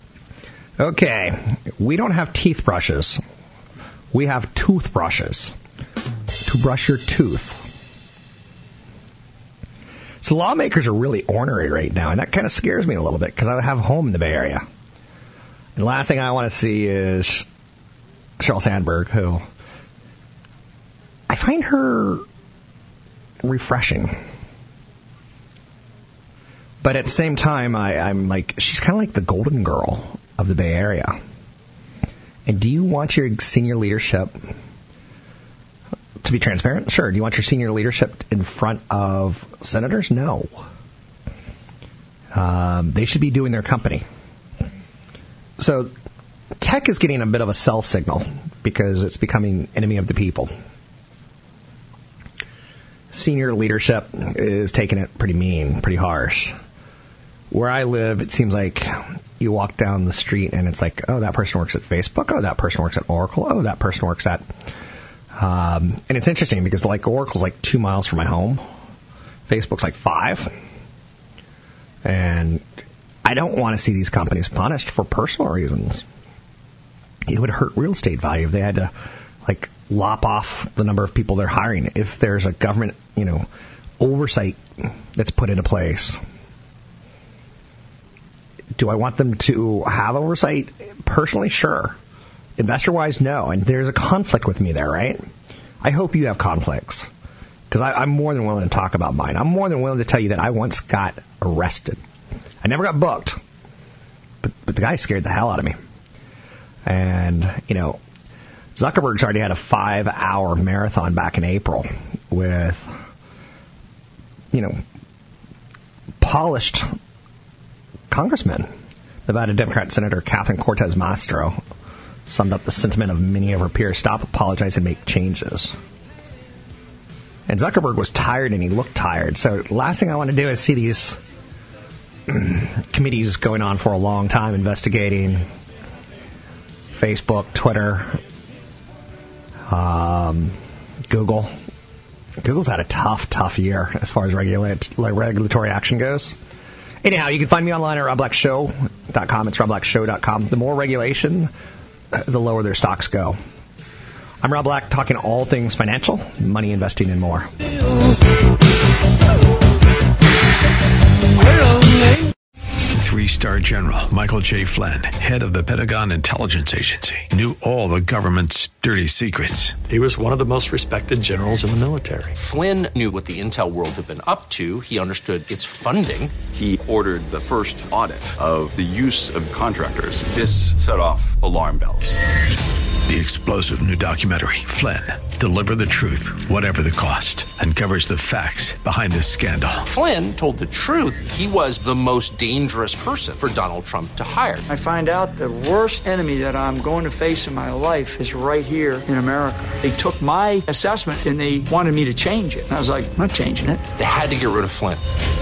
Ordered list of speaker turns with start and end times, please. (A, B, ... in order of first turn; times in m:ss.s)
0:00.8-0:03.2 A
0:04.1-0:05.5 A
0:06.4-0:07.6 A
0:10.2-0:14.6 A
0:15.8-0:17.4 A
0:18.4-0:19.4 A
0:21.3-0:22.2 A
0:23.4-0:24.2 A
0:26.8-0:31.2 A
0:32.4-0:34.4 A
0:36.2-0:40.6 A
0:42.3-0:44.0 A
0:45.6-0:45.9 A
0:46.6-0:50.5 A
0:53.1-0:56.5 A
0:57.5-1:04.4 A
1:05.3-1:08.6 A
1:09.5-1:10.5 A
1:12.0-1:12.6 A
1:13.2-1:16.0 A
1:17.2-1:18.9 A
1:19.4-1:23.4 A
1:24.0-1:24.6 A
1:25.1-1:26.2 A
1:28.8-1:32.0 A
1:32.6-1:35.2 A
1:35.8-1:37.1 A
1:37.7-1:42.0 A
1:42.6-1:43.4 A
1:44.4-1:45.8 A
1:46.8-1:48.0 A
1:48.7-1:52.9 A
1:54.5-1:54.8 A
1:56.2-1:56.9 A
1:58.1-1:58.7 A
1:59.2-2:01.6 A
2:02.3-2:05.8 A
2:07.5-2:11.2 A
2:12.3-2:15.4 A
2:16.9-2:18.2 A
2:19.7-2:20.6 A
2:21.1-2:21.5 A
2:22.4-2:26.4 A
2:27.0-2:31.5 A
2:32.1-2:33.4 A
2:34.4-2:37.5 A
2:42.9-2:49.8 B
2:49.9-2:52.4 C
2:52.4-2:56.3 D
2:56.5-3:02.2 E
3:03.1-3:09.9 B
3:09.8-3:14.6 D
3:14.7-3:23.8 F
3:24.0-3:25.0 D